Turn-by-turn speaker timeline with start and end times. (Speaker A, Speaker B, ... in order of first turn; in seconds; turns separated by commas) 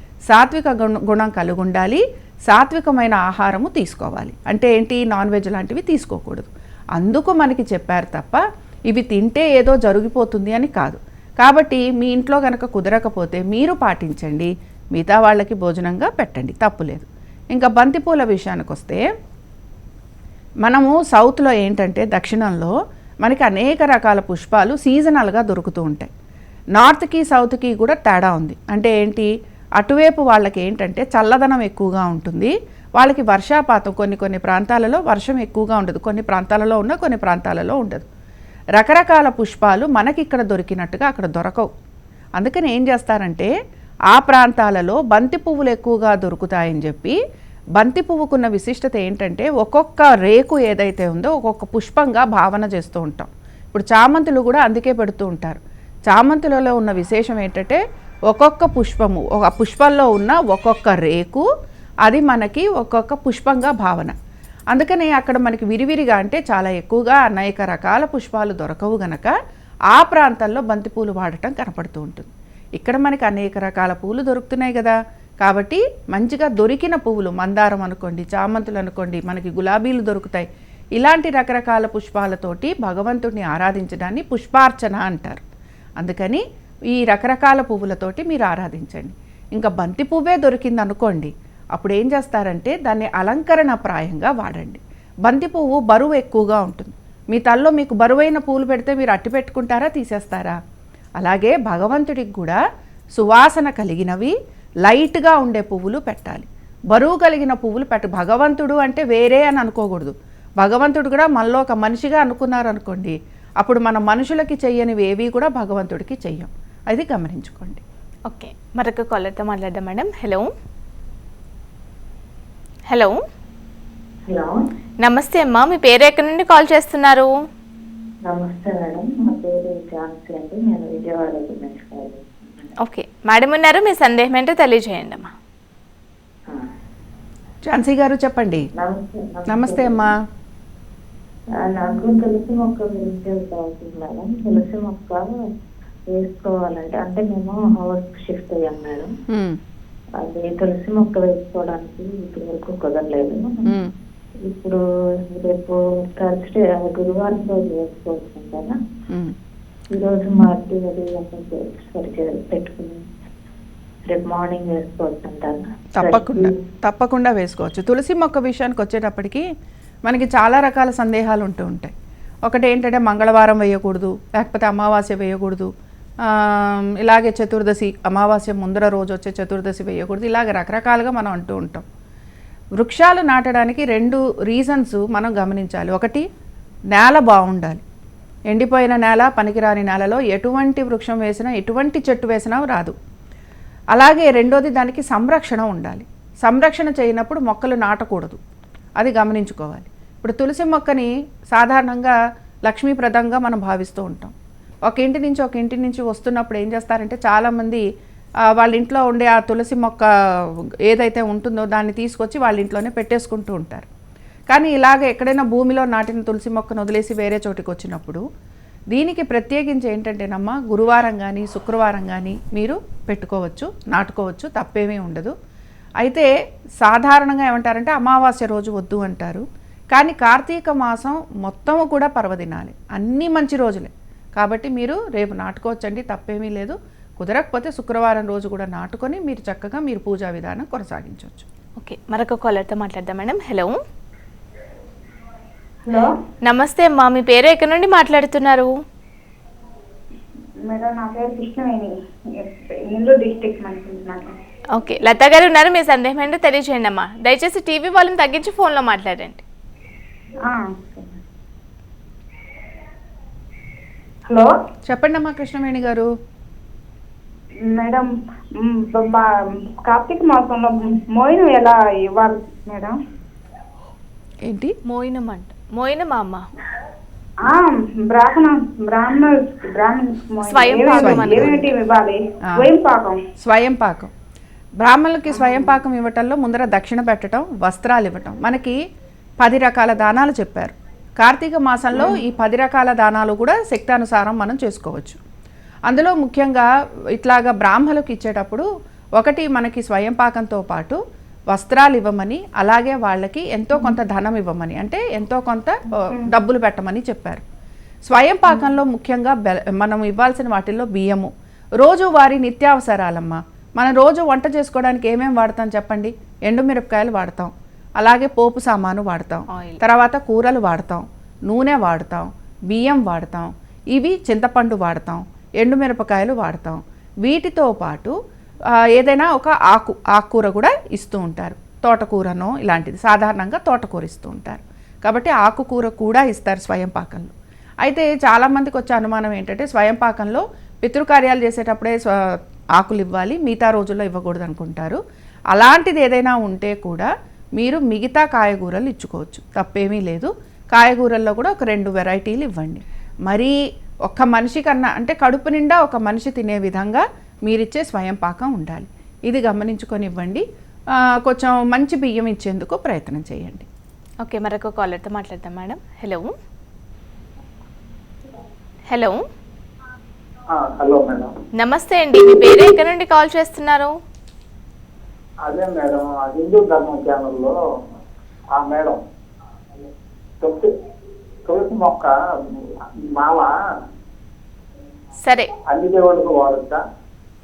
Speaker A: 0.3-19.0, Speaker A: 20.6-22.7, Speaker A: 23.2-26.1, Speaker A: 26.8-38.0, Speaker A: 38.8-41.7, Speaker A: 42.4-43.5, Speaker A: 44.1-47.2, Speaker A: 47.8-61.4, Speaker A: 62.0-64.2, Speaker A: 64.7-69.3, Speaker A: 69.9-85.4, Speaker A: 86.0-100.6, Speaker A: 101.2-102.6, Speaker A: 103.2-104.3, Speaker A: 104.8-117.8, Speaker B: 118.3-120.5, Speaker B: 122.9-123.2, Speaker C: 124.3-124.6, Speaker B: 125.0-127.3, Speaker C: 128.3-132.7, Speaker B: 132.8-135.3, Speaker A: 137.7-138.6, Speaker C: 138.8-140.1, Speaker A: 139.5-140.1, Speaker C: 141.6-145.3, Speaker C: 146.1-149.1, Speaker A: 149.3-149.6, Speaker C: 150.2-153.7, Speaker A: 153.7-153.9, Speaker C: 154.4-154.8, Speaker C: 155.3-158.8, Speaker C: 159.9-163.0, Speaker C: 164.1-166.5, Speaker A: 166.0-169.4, Speaker A: 170.1-171.9, Speaker A: 172.4-175.7, Speaker A: 176.2-181.8, Speaker A: 182.8-186.2, Speaker A: 186.9-187.8, Speaker A: 188.5-192.9, Speaker A: 193.9-198.4, Speaker A: 199.0-204.3, Speaker A: 204.8-207.8, Speaker A: 208.5-213.9, Speaker A: 214.5-218.2, Speaker A: 218.9-225.3, Speaker A: 226.0-226.3, Speaker A: 226.8-241.5, Speaker B: 241.8-243.7, Speaker B: 246.4-248.7, Speaker D: 250.6-254.3, Speaker B: 254.7-259.4, Speaker D: 260.4-261.1, Speaker D: 264.3-264.5, Speaker A: 264.9-266.1, Speaker D: 267.6-272.9, Speaker A: 274.4-274.8, Speaker B: 274.9-276.5, Speaker D: 277.4-283.2, Speaker B: 280.4-281.7, Speaker A: 280.9-281.6, Speaker A: 283.4-284.1, Speaker A: 284.8-288.8, Speaker A: 289.4-295.2, Speaker A: 295.9-296.7, Speaker A: 297.2-298.7, Speaker A: 299.2-301.0, Speaker A: 301.5-307.4, Speaker A: 308.1-328.1, Speaker B: 319.5-319.8, Speaker A: 328.9-342.1, Speaker A: 342.8-345.0, Speaker A: 345.5-353.6, Speaker A: 354.1-360.4, Speaker A: 361.2-363.6, Speaker B: 364.2-366.3, Speaker B: 368.9-369.2, Speaker E: 370.5-371.3, Speaker B: 371.6-373.9, Speaker E: 375.4-377.6, Speaker E: 378.5-379.0, Speaker E: 380.4-380.7, Speaker E: 381.5-383.5, Speaker B: 385.2-385.5, Speaker E: 385.7-386.8